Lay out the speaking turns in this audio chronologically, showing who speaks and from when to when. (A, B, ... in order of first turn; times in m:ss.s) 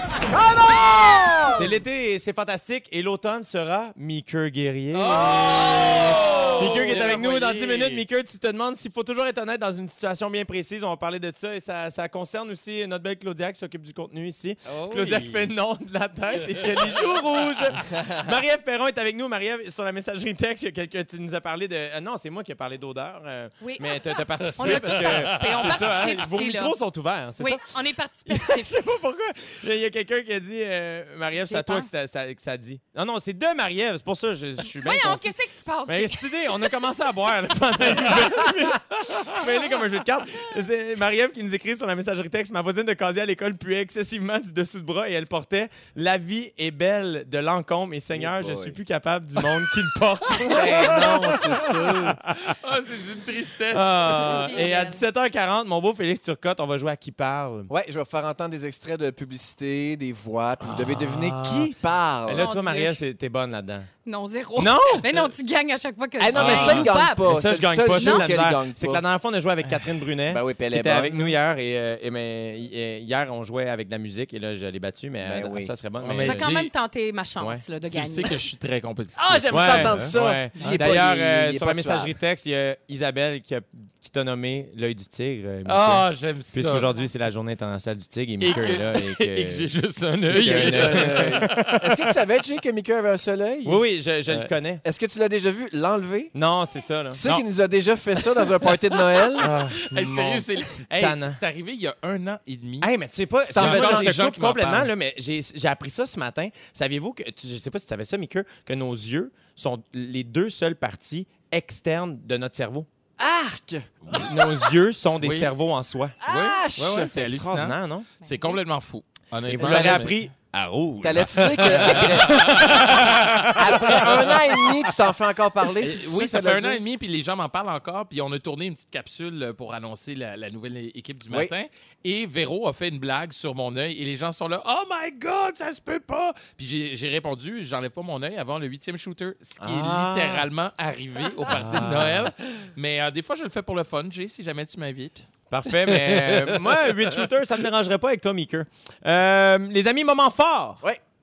0:00.3-0:01.7 A
0:01.5-0:27.7 B
0:04.9-0:08.0 C
0:05.1-0:07.1 A
0:14.7-0:15.5 C
0:23.6-0:26.8 D
0:24.5-0:26.2 C
0:27.4-0:28.8 D
0:28.3-0:35.3 B
0:31.4-0:31.9 D
0:34.7-0:36.6 D
0:35.9-0:52.6 B
0:48.1-0:48.8 A
0:50.5-0:52.2 A
0:50.6-0:51.1 C
0:52.4-0:54.5 C
0:53.7-0:57.7 B
0:54.1-0:55.0 D
0:57.7-1:02.5 A
1:00.6-1:01.7 B
1:02.3-1:03.9 B
1:02.3-1:03.0 D
1:04.0-1:07.3 D
1:04.6-1:05.1 B
1:06.2-1:09.0 A
1:06.4-1:16.5 B
1:07.9-1:08.3 D
1:10.3-1:11.3 A
1:15.2-1:15.7 A
1:16.0-1:16.7 C
1:16.2-1:18.4 D
1:17.9-1:20.1 C
1:19.2-1:22.1 A
1:19.5-1:29.7 B
1:20.8-1:21.0 C
1:25.7-1:26.9 C
1:28.4-1:31.8 C
1:30.3-1:31.8 B
1:30.4-1:33.8 A
1:33.6-1:34.8 B
1:34.3-1:36.3 A
1:36.3-1:37.2 B
1:37.1-1:39.5 A
1:39.4-1:42.9 C
1:39.4-1:41.4 B
1:42.8-1:52.9 B
1:43.5-1:44.1 A
1:43.6-1:44.9 C
1:53.2-1:54.2 A
1:54.0-1:54.3 C
1:54.1-1:56.2 B
1:55.2-1:55.5 C
1:56.2-1:57.1 A
1:56.2-2:00.2 C
1:57.0-1:58.1 B
1:58.2-1:58.6 D
1:59.5-2:04.3 B
1:59.5-2:00.1 A
2:01.0-2:06.8 A
2:01.3-2:04.7 C
2:05.8-2:27.1 C
2:19.6-2:20.4 B
2:21.5-2:22.3 B
2:25.5-2:30.8 B